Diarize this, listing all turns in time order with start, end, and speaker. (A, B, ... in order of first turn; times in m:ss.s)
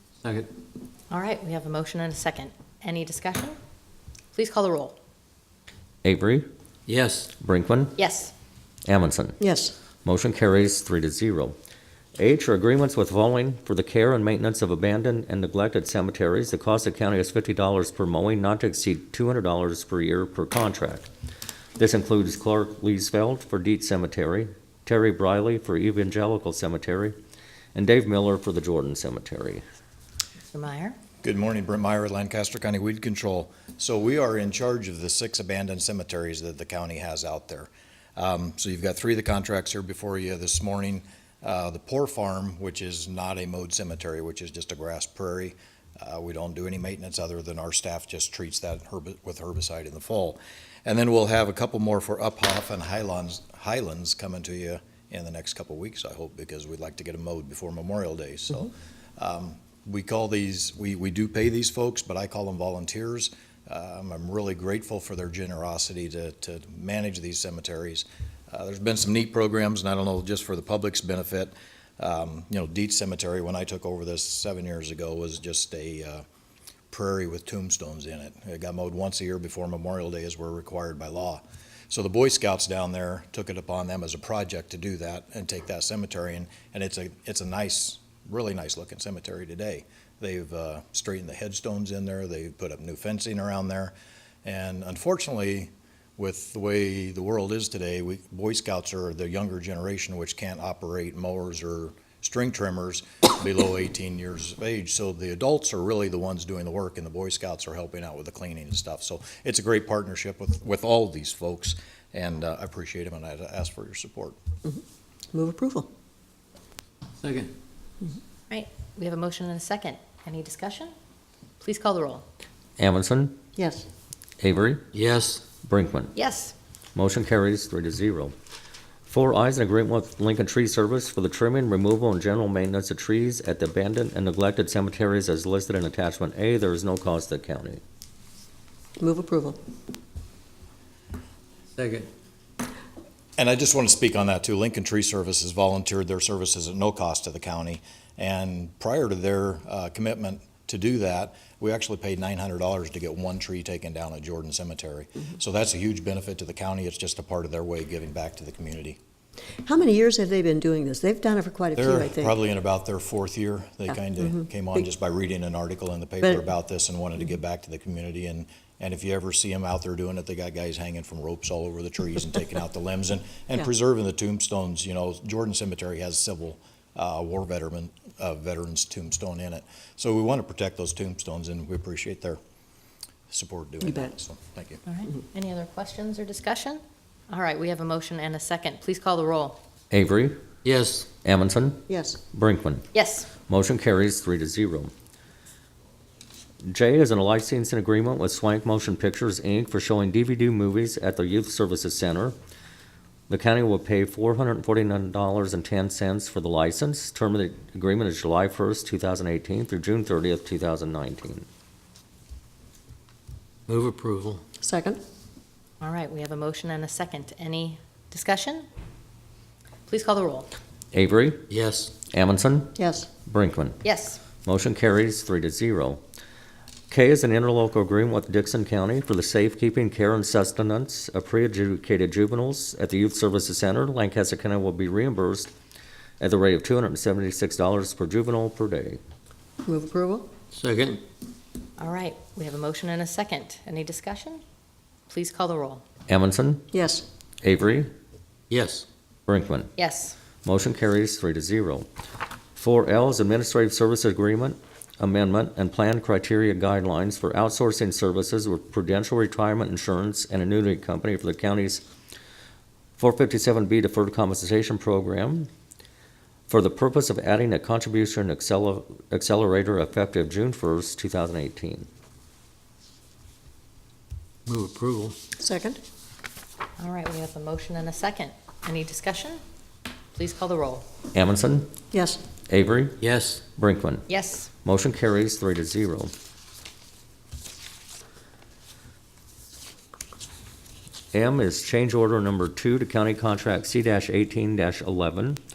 0:00.2-0:00.5 A
0:01.1-0:03.6 B
0:04.3-0:05.0 B
0:06.0-0:06.5 C
0:06.9-0:07.3 A
0:07.4-0:08.0 C
0:08.0-0:08.3 B
0:08.9-0:09.4 C
0:09.4-0:09.8 D
0:10.0-0:11.6 C
0:12.2-0:21.1 C
0:21.8-0:27.2 C
0:27.8-0:29.6 C
0:30.5-0:31.0 B
0:31.2-1:16.2 E
1:16.9-1:33.9 E
1:34.4-1:54.4 E
1:55.3-1:55.9 D
1:57.2-1:57.5 A
1:58.5-2:00.9 B
2:01.6-2:02.3 B
2:02.8-2:03.4 C
2:03.6-2:03.9 D
2:04.4-2:04.8 C
2:04.9-2:05.5 A
2:05.6-2:06.1 C
2:06.2-2:06.6 B
2:07.0-2:08.4 C
2:09.1-2:17.8 C
2:19.0-2:19.6 D
2:21.8-2:22.1 A
2:23.4-2:39.0 E
2:39.6-2:42.4 D
2:41.8-3:02.4 E
2:44.2-2:44.4 D
3:03.3-3:04.8 E
3:03.8-3:04.1 D
3:04.8-3:09.6 B
3:09.9-3:10.4 C
3:10.6-3:11.1 A
3:11.2-3:12.9 C
3:11.9-3:12.2 D
3:12.9-3:13.3 B
3:13.5-3:14.9 C
3:16.6-3:22.4 C
3:23.3-3:31.5 C
3:33.7-3:34.4 A
3:34.6-3:35.0 D
3:35.8-3:38.7 B
3:39.9-3:40.5 B
3:40.9-3:41.4 C
3:41.5-3:42.0 A
3:42.1-3:42.8 C
3:42.8-3:43.1 D
3:43.3-3:43.8 C
3:43.8-3:44.2 B
3:44.4-3:46.0 C
3:46.9-3:55.5 C
3:56.2-3:59.0 C
3:59.6-4:00.3 D
4:00.5-4:01.0 A
4:01.8-4:04.4 B
4:05.1-4:05.8 B
4:06.1-4:06.7 C
4:06.7-4:07.0 D
4:07.4-4:07.9 C
4:08.5-4:08.9 A
4:09.3-4:09.7 C
4:09.8-4:10.2 B
4:10.4-4:11.9 C
4:12.6-4:21.8 C
4:23.0-4:25.5 C
4:26.5-4:31.9 C
4:34.5-4:35.2 A
4:35.4-4:35.8 D
4:36.8-4:39.4 B
4:40.2-4:40.9 B
4:41.1-4:41.7 C
4:41.9-4:42.2 D
4:42.5-4:43.0 C
4:43.0-4:43.5 A
4:43.6-4:44.1 C
4:44.1-4:44.5 B
4:44.6-4:46.1 C
4:51.1-4:55.4 C